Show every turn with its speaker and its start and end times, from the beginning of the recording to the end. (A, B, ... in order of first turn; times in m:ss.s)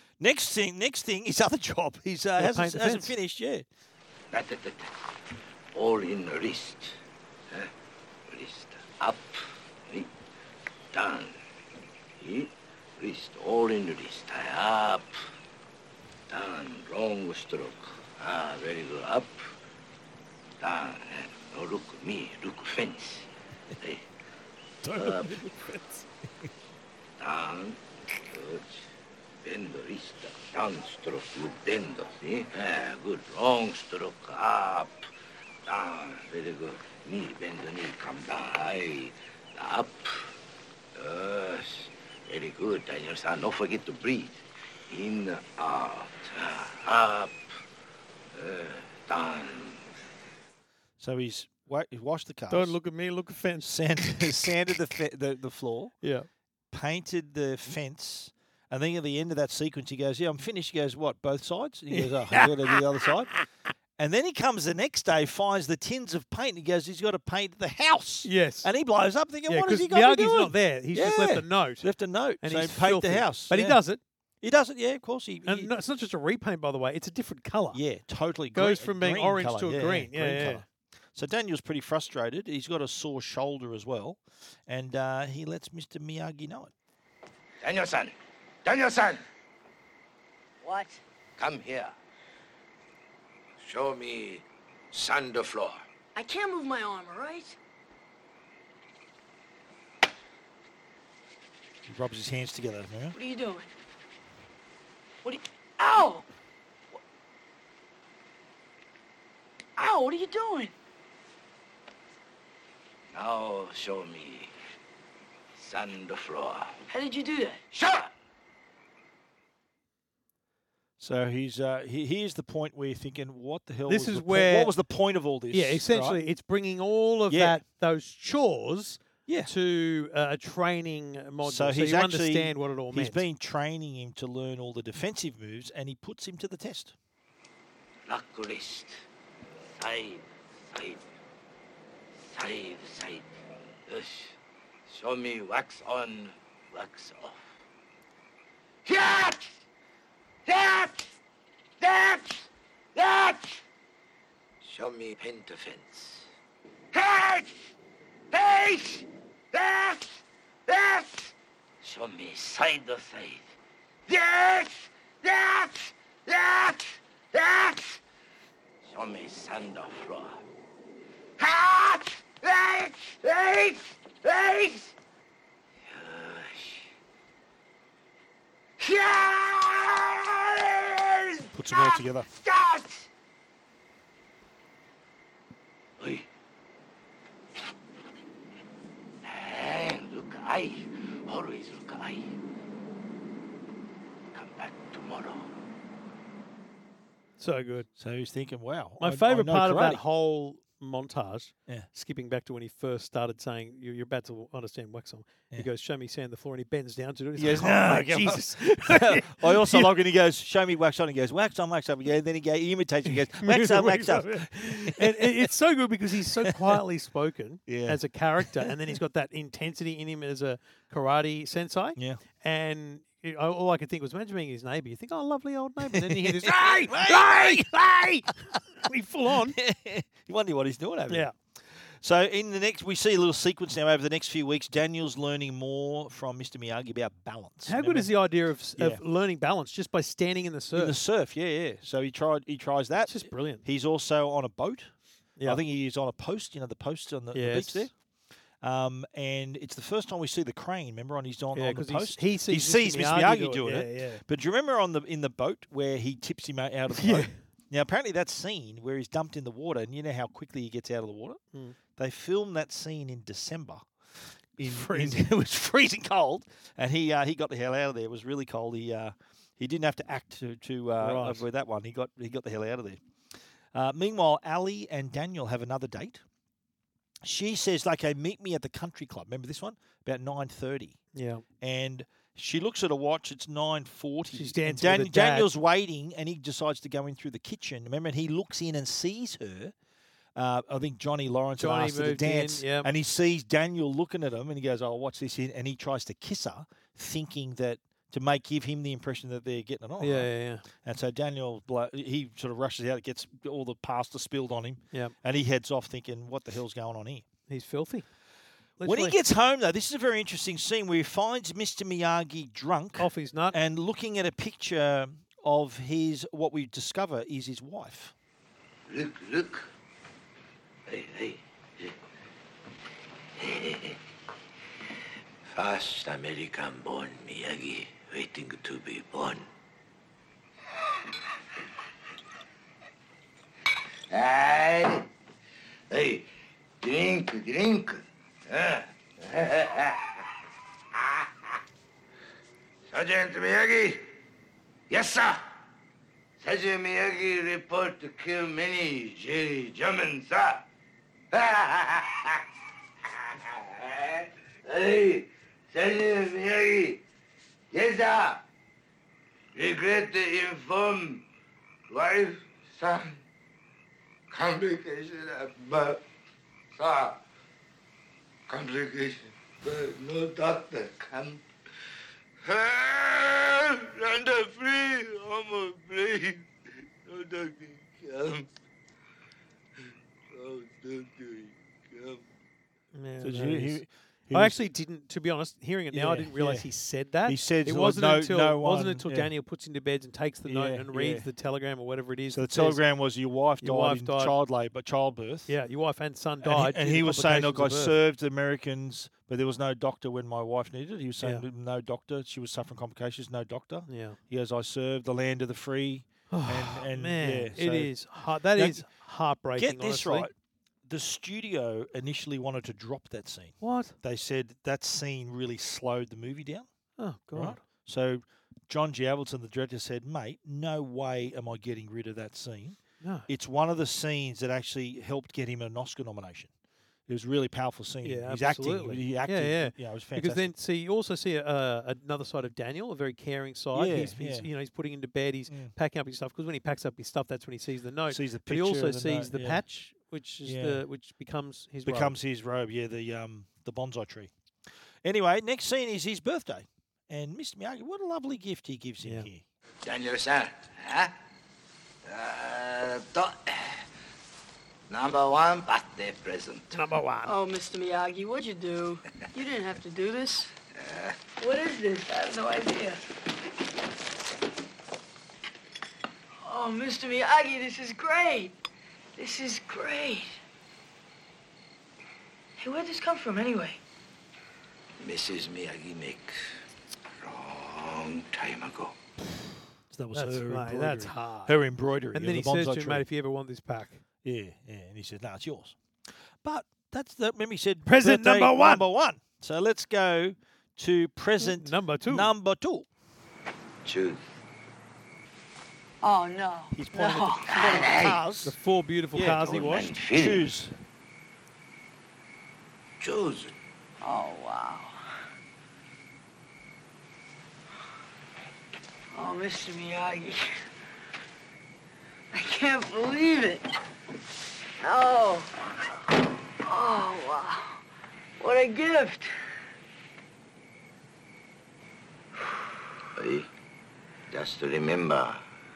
0:00.2-0:03.6 A
0:02.4-0:03.1 B
0:04.3-0:05.0 C
0:05.7-0:07.0 C
0:08.3-0:10.1 C
0:10.9-0:11.4 C
0:12.2-0:15.1 C
0:16.3-0:19.4 C
0:20.6-0:23.3 C
0:23.8-0:24.0 C
0:24.8-0:25.8 A
0:25.0-0:25.3 C
0:25.0-0:25.8 B
0:27.2-0:28.9 C
0:29.4-0:35.0 C
0:35.7-0:40.3 C
0:41.0-0:47.4 C
0:48.3-0:49.8 C
0:51.0-0:52.8 A
0:52.5-0:54.5 B
0:53.6-0:56.0 A
0:56.0-0:56.3 B
0:56.7-1:03.3 A
1:01.9-1:02.8 B
1:04.0-1:13.8 A
1:08.2-1:08.7 B
1:09.5-1:14.0 B
1:14.4-1:15.7 A
1:15.4-1:17.8 B
1:17.7-1:26.7 A
1:18.5-1:20.6 B
1:27.6-1:29.2 C
1:30.6-1:31.0 D
1:31.4-1:31.9 C
1:33.6-1:35.8 C
1:36.1-1:37.6 D
1:41.8-1:43.1 A
1:43.1-1:43.7 D
1:45.2-1:46.2 D
1:49.8-1:50.7 D
1:53.1-1:54.5 C
1:55.5-1:56.8 C
1:56.9-1:57.6 D
1:57.7-1:58.1 C
2:01.0-2:06.2 A
2:03.9-2:04.7 B
2:05.5-2:13.2 B
2:07.3-2:07.6 A
2:09.3-2:09.5 A
2:11.4-2:16.9 A
2:18.1-2:19.0 C
2:19.8-2:21.0 C
2:22.3-2:24.3 C
2:24.9-2:27.5 C
2:28.8-2:29.6 C
2:30.4-2:31.1 C
2:31.8-2:33.6 C
2:34.6-2:36.3 C
2:36.9-2:37.7 C
2:38.3-2:43.5 C
2:44.1-2:48.0 C
2:48.8-2:50.4 C
2:51.4-2:54.9 C
2:55.8-2:56.9 C
2:58.8-3:03.1 C
3:01.5-3:02.3 A
3:06.0-3:06.2 C
3:09.2-3:12.3 C
3:14.3-3:15.5 C
3:17.4-3:17.9 B
3:18.0-3:20.0 A
3:19.0-3:29.9 B
3:27.4-3:35.5 A
3:33.1-3:49.6 B
3:36.4-3:36.8 A
3:37.7-3:38.8 A
3:42.0-3:42.2 A
3:45.9-3:48.3 A
3:49.3-3:58.2 A
3:51.1-3:51.3 B
3:57.6-4:01.0 B
3:58.7-3:59.0 A
4:00.7-4:04.9 A
4:03.0-4:03.6 B
4:05.4-4:07.9 A
4:07.3-4:07.9 B
4:08.6-4:21.4 A
4:11.5-4:14.2 B
4:16.9-4:17.3 B
4:22.0-4:23.9 A
4:24.6-4:33.0 A
4:24.6-4:25.3 B
4:31.0-4:31.4 B
4:33.7-4:36.2 A
4:37.2-4:41.0 A
4:41.1-4:41.4 B
4:41.6-4:49.7 A
4:44.3-4:45.5 B
4:50.4-5:07.3 A
4:51.6-4:52.9 B
5:00.0-5:00.6 B
5:07.5-5:08.1 B
5:08.8-5:09.2 B
5:08.8-5:18.1 A
5:13.0-5:13.6 B
5:18.9-5:19.7 C
5:20.9-5:21.9 C
5:23.4-5:24.0 C
5:25.4-5:29.5 C
5:34.1-5:35.0 C
5:35.9-5:36.2 C
5:36.8-5:40.2 C
5:41.0-5:41.2 C
5:42.9-5:44.0 C
5:44.9-5:45.4 C
5:46.4-5:50.6 C
5:51.3-5:52.4 C
5:53.3-5:57.0 C
5:57.7-5:58.4 C
5:59.5-6:01.2 C
6:01.9-6:03.2 C
6:04.3-6:06.0 C
6:06.7-6:07.2 C
6:08.5-6:11.4 C
6:12.4-6:16.5 C
6:17.0-6:18.5 C
6:20.3-6:22.2 C
6:22.9-6:32.8 B
6:23.2-6:24.6 A
6:25.9-6:26.7 A
6:27.2-6:29.3 A
6:30.4-6:31.3 A
6:32.3-6:35.5 A
6:33.6-6:34.3 B
6:35.5-6:38.0 B
6:36.4-6:48.0 A
6:43.9-6:44.2 B
6:46.3-6:50.3 B
6:48.5-6:48.9 A
6:49.5-6:50.3 A
6:50.8-6:56.7 A
6:53.6-6:53.9 B
6:57.0-6:57.6 B
6:57.3-7:06.5 A
7:03.0-7:03.3 B
7:07.1-7:10.5 A
7:08.0-7:22.2 B
7:13.7-7:14.5 A
7:15.5-7:15.7 A
7:18.1-7:19.6 A
7:20.4-7:20.8 A
7:21.8-7:24.3 A
7:25.0-7:29.4 A
7:29.8-7:31.1 C
7:32.0-7:33.8 C
7:34.9-7:36.7 C
7:36.7-7:37.3 B
7:37.2-7:40.5 D
7:40.8-7:41.1 C
7:41.4-7:43.0 D
7:46.4-7:48.5 D
7:49.2-7:50.4 D
7:52.6-7:53.8 D
7:55.0-7:56.3 C
7:57.2-7:59.0 C
7:59.9-8:03.0 A
8:00.1-8:01.5 B
8:02.1-8:04.0 B
8:04.2-8:05.8 A
8:06.4-8:12.9 A
8:07.8-8:08.8 B
8:11.4-8:12.3 B
8:13.8-8:14.2 C
8:16.0-8:17.9 D
8:16.7-8:18.6 A
8:17.7-8:18.2 C
8:18.4-8:19.9 B
8:19.1-8:19.5 A
8:19.4-8:20.4 C
8:20.1-8:20.8 A
8:23.0-8:23.5 C
8:24.0-8:24.9 D
8:29.1-8:30.6 D
8:32.3-8:33.6 D
8:34.8-8:35.5 D
8:36.6-8:37.8 D
8:38.4-8:39.3 D
8:43.2-8:43.5 C
8:44.3-8:45.4 C